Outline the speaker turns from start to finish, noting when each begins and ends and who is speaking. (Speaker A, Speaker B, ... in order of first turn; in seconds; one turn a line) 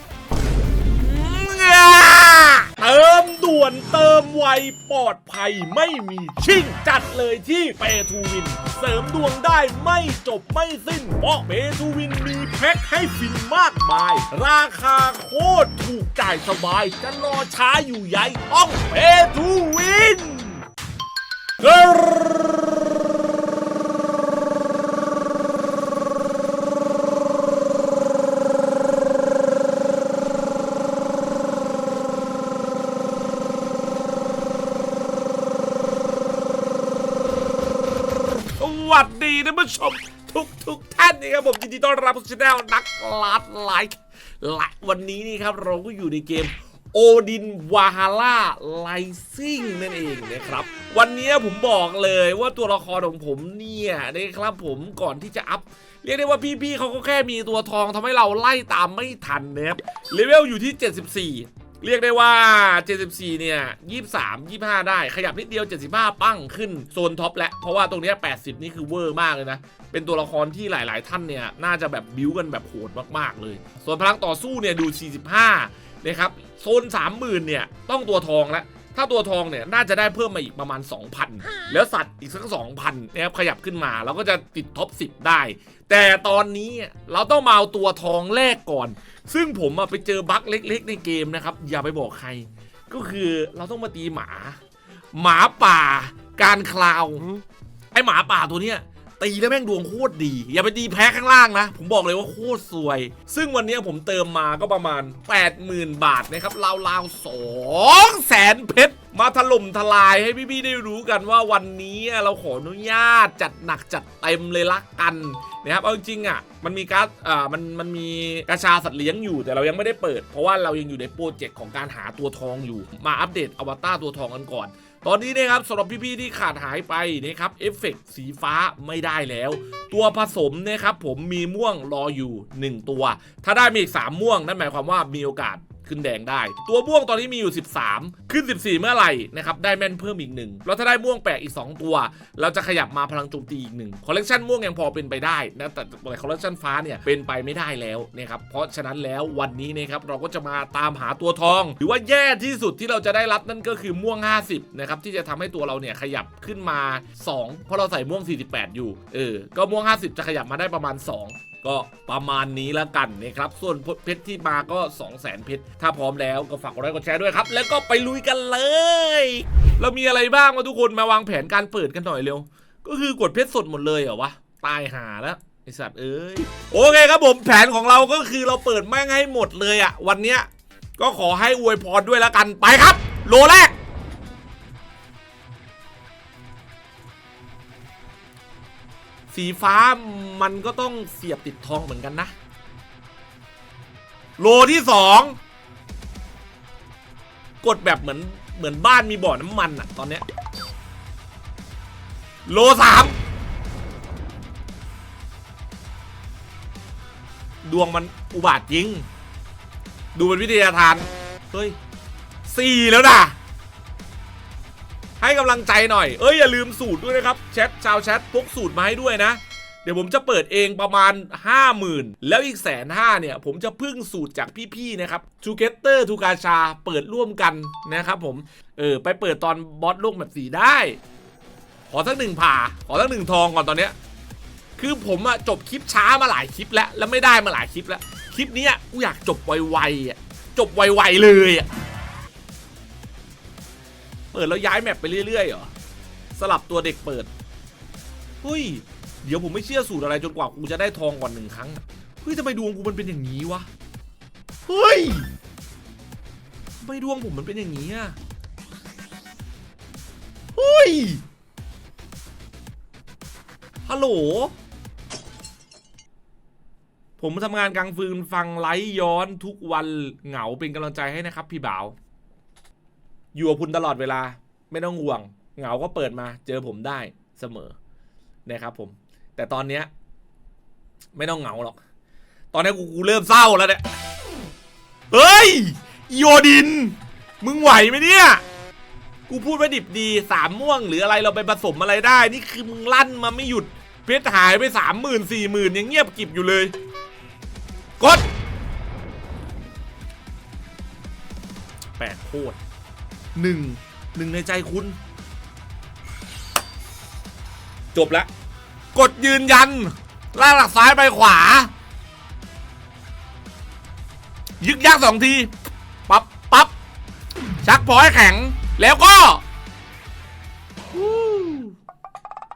Speaker A: 0.8-20.6
Speaker A: 21.6-22.7
Speaker A: 38.5-94.6
Speaker A: 95.1-97.3
Speaker A: 97.9-183.7
Speaker A: 189.3-192.3
Speaker A: 194.4-195.3
Speaker A: 197.6-200.2
Speaker A: 202.4-203.2
Speaker A: 207.6-209.1
Speaker A: 210.1-211.8
Speaker A: 212.4-213.3
Speaker A: 215.2-231.0
Speaker A: 231.9-233.9
Speaker A: 234.8-241.7
Speaker A: 244.3-245.7
Speaker A: 246.3-247.3
Speaker A: 248.4-253.7
Speaker A: 254.7-255.3
Speaker A: 256.8-258.1
Speaker A: 260.5-261.2
Speaker A: 263.9-264.5
Speaker A: 267.2-271.9
Speaker A: 273.3-277.7
Speaker A: 278.4-279.9
Speaker A: 281.1-281.8
Speaker A: 282.5-283.8
Speaker A: 285.1-288.4
Speaker A: 289.3-296.7
Speaker A: 298.0-298.2
Speaker A: 302.0-302.6
Speaker A: 303.3-305.0
Speaker A: 307.9-308.3
Speaker A: 308.9-311.7
Speaker A: 314.6-315.5
Speaker A: 316.1-316.7
Speaker A: 317.6-319.4
Speaker A: 320.9-321.8